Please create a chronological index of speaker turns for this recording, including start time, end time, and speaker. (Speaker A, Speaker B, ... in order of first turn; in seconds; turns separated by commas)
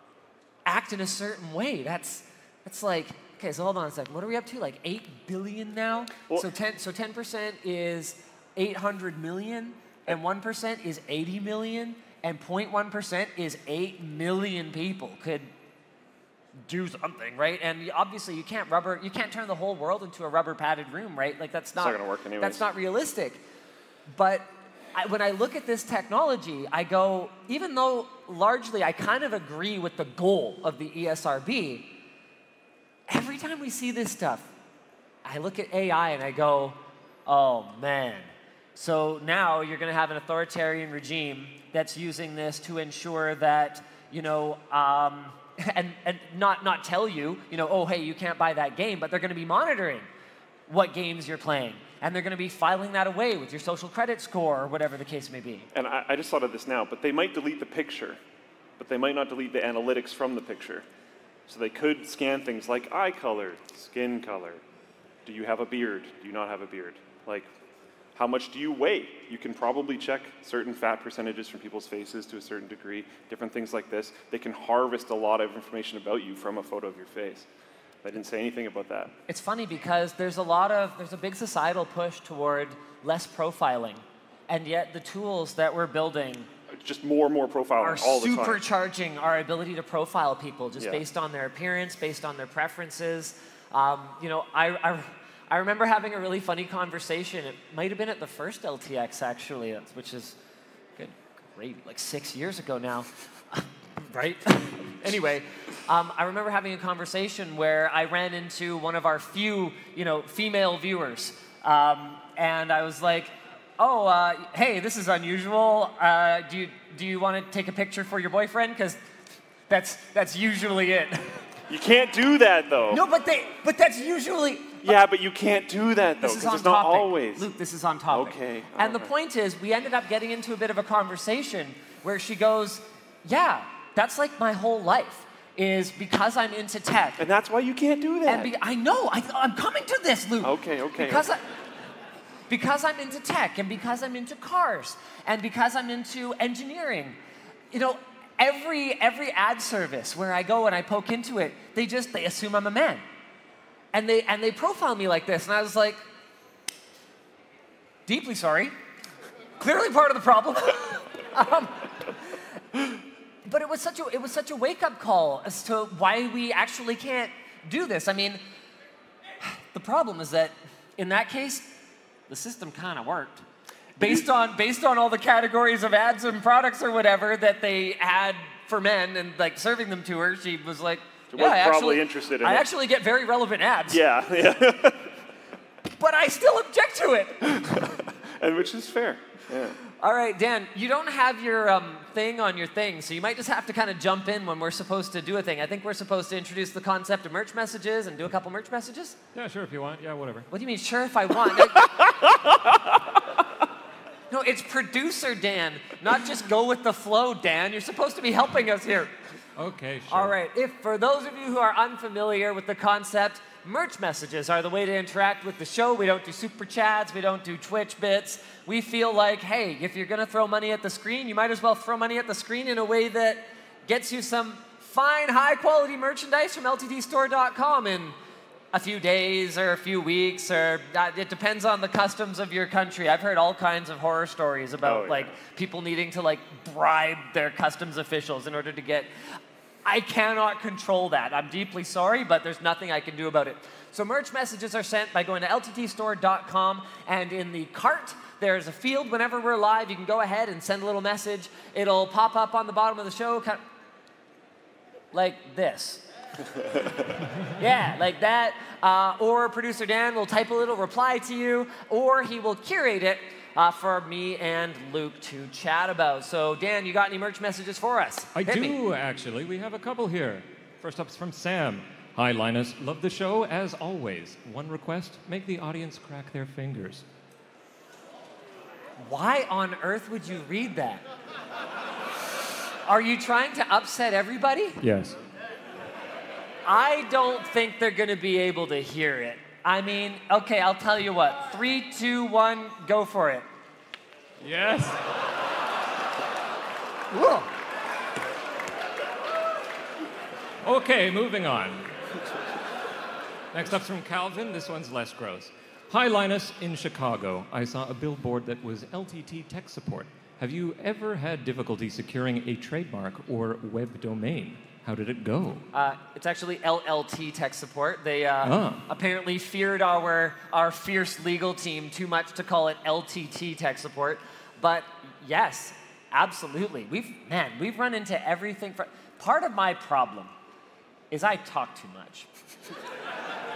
Speaker A: 0.7-15.5, Speaker A: 16.7-23.4, Speaker B: 21.8-22.6, Speaker A: 24.1-31.9, Speaker A: 33.1-34.5, Speaker A: 35.2-50.1, Speaker A: 50.7-55.7, Speaker B: 55.7-58.2, Speaker B: 58.8-60.8, Speaker B: 61.5-64.6, Speaker B: 65.2-67.5, Speaker B: 68.1-77.5, Speaker B: 78.0-79.1, Speaker A: 79.3-86.5, Speaker B: 86.7-88.6, Speaker A: 87.8-100.4, Speaker B: 90.8-91.0, Speaker A: 101.0-119.0, Speaker A: 119.7-121.4, Speaker B: 121.7-123.0, Speaker A: 122.9-125.0, Speaker B: 124.8-127.5, Speaker A: 126.2-137.2, Speaker B: 128.1-129.1, Speaker B: 137.2-138.5, Speaker A: 138.2-141.4, Speaker B: 140.4-141.3, Speaker A: 142.5-147.2, Speaker A: 147.7-153.0, Speaker A: 153.9-156.0, Speaker A: 158.1-158.7, Speaker A: 159.6-162.3, Speaker A: 163.4-168.4, Speaker A: 169.4-171.8, Speaker A: 172.3-173.4, Speaker A: 174.0-184.0, Speaker B: 174.0-174.3, Speaker B: 181.3-182.7, Speaker B: 183.9-185.1, Speaker A: 186.0-187.9, Speaker B: 187.6-189.8, Speaker A: 189.9-199.2, Speaker C: 199.3-200.5, Speaker A: 200.5-201.9, Speaker B: 201.8-203.0, Speaker A: 204.3-209.1, Speaker C: 209.6-210.3, Speaker A: 210.1-228.2, Speaker A: 228.7-239.1, Speaker B: 234.8-235.3, Speaker A: 239.8-253.6, Speaker A: 255.1-256.0, Speaker B: 256.6-256.9, Speaker A: 257.5-268.8, Speaker C: 268.3-277.0, Speaker A: 279.0-281.0, Speaker A: 282.9-284.8, Speaker C: 284.8-285.2, Speaker A: 286.6-293.5, Speaker C: 294.4-295.1, Speaker C: 297.1-297.5, Speaker C: 300.6-301.9, Speaker C: 303.5-315.7, Speaker A: 315.7-330.3, Speaker C: 318.4-318.8, Speaker A: 331.1-332.3